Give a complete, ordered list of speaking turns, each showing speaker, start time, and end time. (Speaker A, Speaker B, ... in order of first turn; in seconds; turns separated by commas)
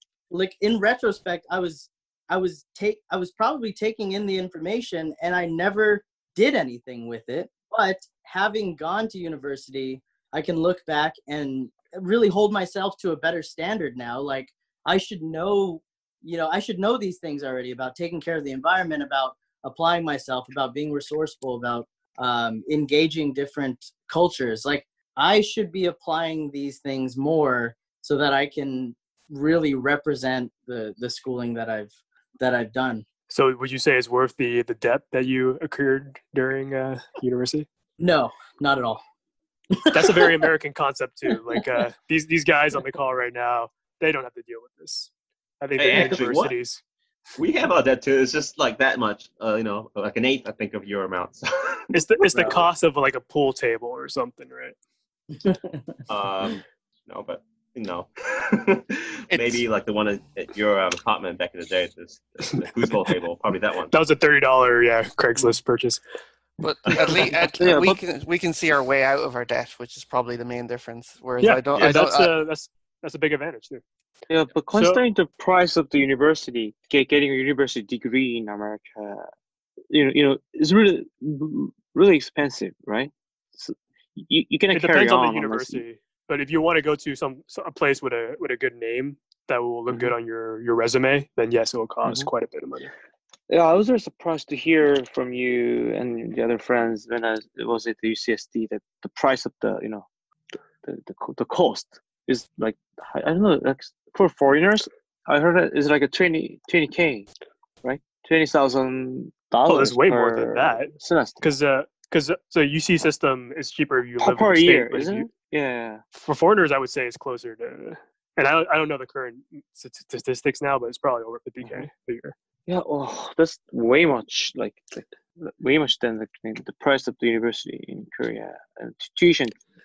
Speaker A: 0.3-33.0, Speaker B: 33.3-37.7, Speaker A: 38.0-39.0, Speaker A: 39.7-40.3, Speaker B: 39.9-45.1, Speaker B: 45.6-46.8, Speaker C: 45.8-46.5, Speaker C: 47.4-51.9, Speaker B: 51.9-54.8, Speaker A: 52.3-52.6, Speaker A: 55.4-56.0, Speaker C: 56.1-63.9, Speaker D: 59.3-59.6, Speaker B: 63.9-66.0, Speaker D: 66.6-72.3, Speaker E: 67.3-68.0, Speaker B: 71.4-73.8, Speaker E: 74.3-79.3, Speaker B: 74.7-75.0, Speaker E: 79.9-85.8, Speaker B: 84.7-92.9, Speaker E: 92.0-92.3, Speaker E: 93.5-100.0, Speaker E: 100.8-107.3, Speaker E: 107.8-111.4, Speaker B: 109.7-115.3, Speaker E: 114.2-116.0, Speaker B: 116.1-122.3, Speaker E: 122.7-129.5